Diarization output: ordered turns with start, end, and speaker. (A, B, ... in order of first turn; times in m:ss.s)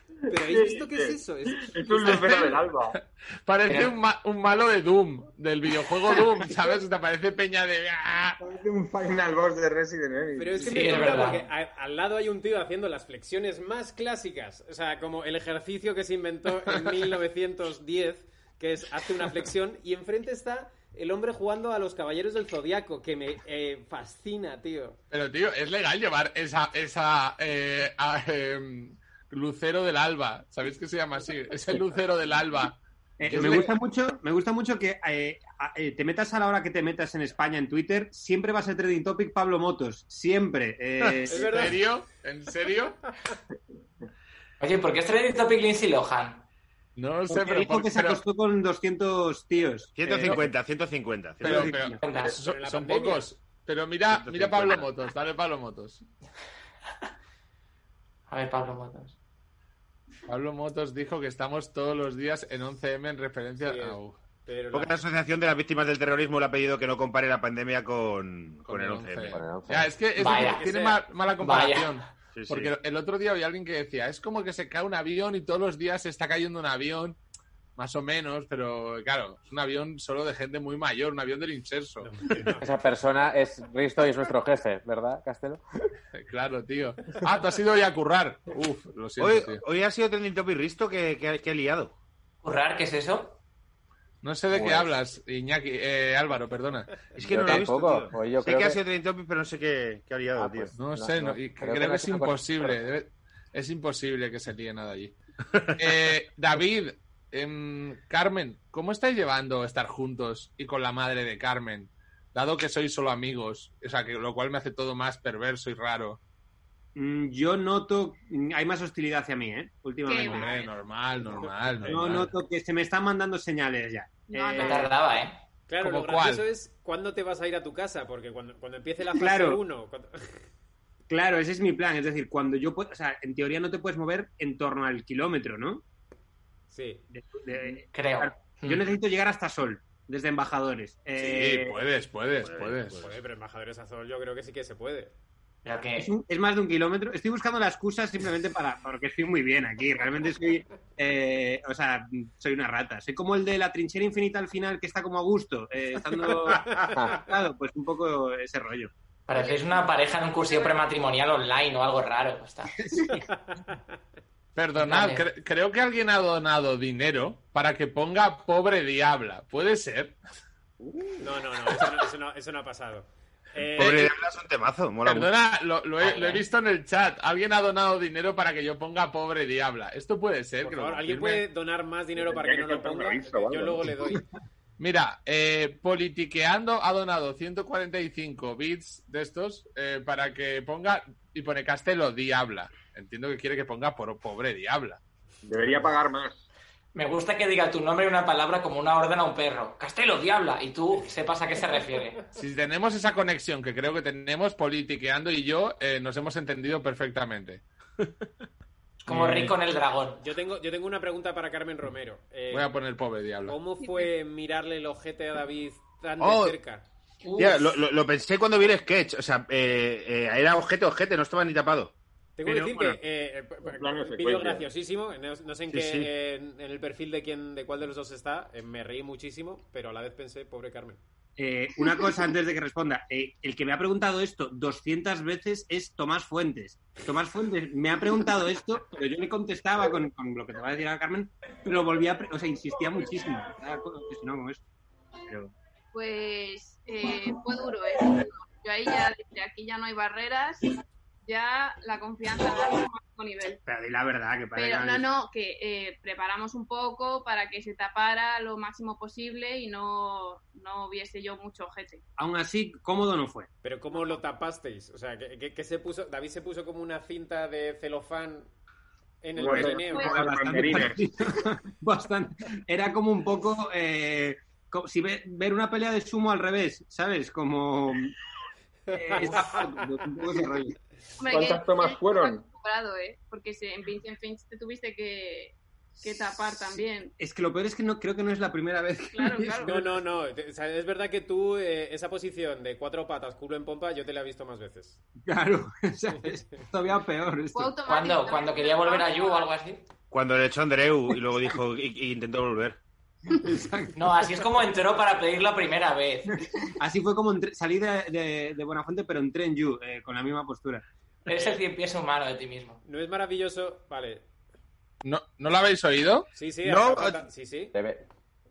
0:00.3-0:02.6 A
0:00.5-0:03.0 B
0:02.1-0:08.4 C
0:03.7-0:03.9 D
0:08.4-0:11.1 B
0:10.3-0:25.0 A
0:10.6-0:11.4 D
0:16.7-0:17.0 C
0:25.1-0:33.8 C
0:33.2-0:41.7 E
0:33.3-0:33.7 F
0:41.3-0:41.8 A
0:41.3-0:43.0 C
0:44.6-0:46.4 D
0:47.0-0:48.2 C
0:47.3-0:50.5 E
0:49.9-0:51.7 F
0:50.2-0:50.4 C
0:51.4-0:52.0 E
0:51.4-0:56.0 C
0:52.0-0:52.4 D
0:52.2-0:53.3 A
0:54.1-0:54.9 F
0:58.3-0:59.2 D
1:00.3-1:04.2 C
1:03.6-1:05.0 A
1:04.7-1:09.4 F
1:08.6-1:17.2 C
1:09.3-1:09.9 G
1:10.2-1:10.6 D
1:10.3-1:11.0 A
1:11.4-1:11.9 D
1:12.3-1:12.7 F
1:17.8-1:22.1 C
1:22.0-1:22.7 A
1:22.6-1:25.6 G
1:26.1-1:29.6 C
1:29.2-1:31.9 F
1:32.4-1:33.4 D
1:34.2-1:37.6 C
1:34.5-1:34.9 G
1:37.1-1:40.7 F
1:37.2-1:38.8 G
1:40.4-1:42.7 G
1:40.8-1:45.2 C
1:45.8-1:56.2 C
1:56.9-2:00.6 E
2:00.0-2:00.7 H
2:00.2-2:02.3 C
2:01.8-2:04.9 E
2:04.3-2:04.9 H
2:04.5-2:05.4 D
2:05.7-2:10.4 A
2:05.8-2:06.4 C
2:09.1-2:09.6 E
2:11.1-2:15.8 E
2:16.7-2:17.0 A
2:17.1-2:21.8 E
2:17.9-2:18.8 D
2:21.2-2:23.0 C
2:22.4-2:23.2 F
2:23.0-2:25.1 A
2:25.6-2:26.1 D
2:26.0-2:38.9 E
2:36.4-2:36.9 A
2:39.3-2:42.7 D
2:39.3-2:39.7 H
2:42.8-2:43.3 E
2:43.1-2:43.8 A
2:44.6-2:50.2 C
2:44.8-2:45.2 D
2:51.2-2:54.1 A
2:53.7-2:55.3 F
2:55.0-3:01.4 C
3:00.6-3:04.2 A
3:02.2-3:04.0 B
3:04.8-3:15.0 C
3:15.4-3:16.4 B
3:16.9-3:22.2 D
3:22.3-3:27.6 C
3:29.0-3:30.2 D
3:29.1-3:29.6 C
3:30.2-3:32.7 A
3:32.5-3:33.6 C
3:33.4-3:36.8 A
3:33.8-3:34.1 H
3:36.2-3:36.6 F
3:37.2-3:37.8 D
3:37.4-3:43.0 F
3:42.4-3:51.0 A
3:43.6-3:44.6 B
3:45.7-3:46.1 F
3:51.4-4:04.6 E
4:05.2-4:05.5 E
4:05.9-4:10.7 H
4:11.2-4:13.6 H
4:13.6-4:15.0 E
4:14.5-4:22.0 H
4:22.2-4:23.5 E
4:23.6-4:28.5 A
4:29.2-4:30.2 A
4:29.4-4:31.3 B
4:29.4-4:38.1 E
4:29.9-4:30.2 H
4:38.9-4:39.7 A
4:38.9-4:40.8 E
4:41.2-4:47.1 H
4:41.3-4:42.4 B
4:46.7-4:50.0 E
4:49.1-4:49.8 H
4:49.6-4:55.0 A
4:55.2-4:57.8 E
4:57.5-4:59.5 H
4:57.8-4:59.8 D
5:00.1-5:02.8 F
5:03.3-5:04.0 E
5:03.9-5:06.3 D
5:06.4-5:10.8 E
5:11.2-5:12.8 D
5:12.8-5:14.2 A
5:15.0-5:16.3 C
5:16.3-5:17.7 A
5:16.6-5:17.2 F
5:17.7-5:18.0 G